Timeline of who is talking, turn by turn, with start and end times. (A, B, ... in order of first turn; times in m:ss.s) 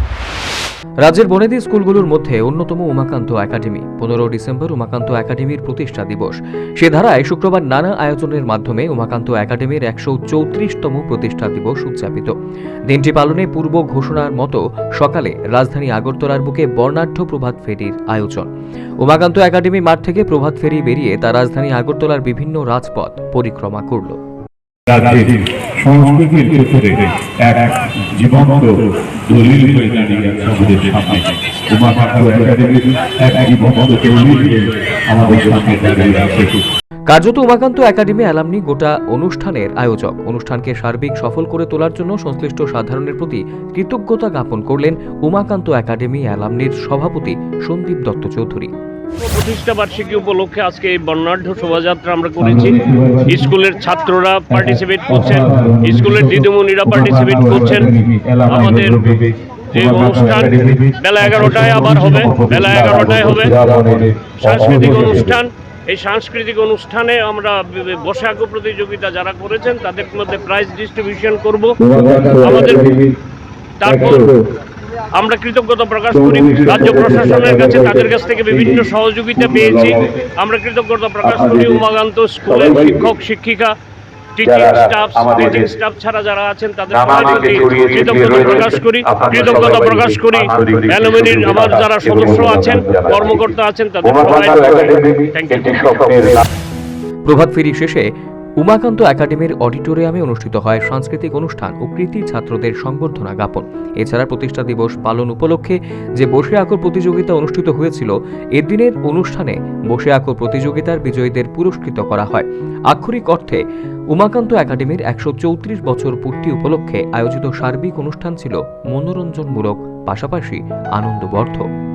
0:01.0-0:12.3 A
0:12.9-0:18.5 A
0:19.0-0:24.2 A
0:24.9-0:36.6 B
0:37.1-0:48.7 A
0:49.2-0:58.0 C
0:52.4-0:53.5 B
0:54.5-1:05.4 B
0:58.5-0:59.1 C
0:59.7-1:03.6 C
1:04.3-1:12.9 C
1:11.8-1:13.2 B
1:13.8-1:14.3 C
1:13.8-1:14.4 B
1:15.1-1:23.7 C
1:16.1-1:20.1 B
1:21.2-1:21.8 B
1:22.4-1:23.1 B
1:24.4-1:36.3 C
1:24.4-1:25.7 B
1:26.9-1:36.4 B
1:37.2-1:38.1 A
1:38.6-1:53.6 A
1:54.1-2:01.6 A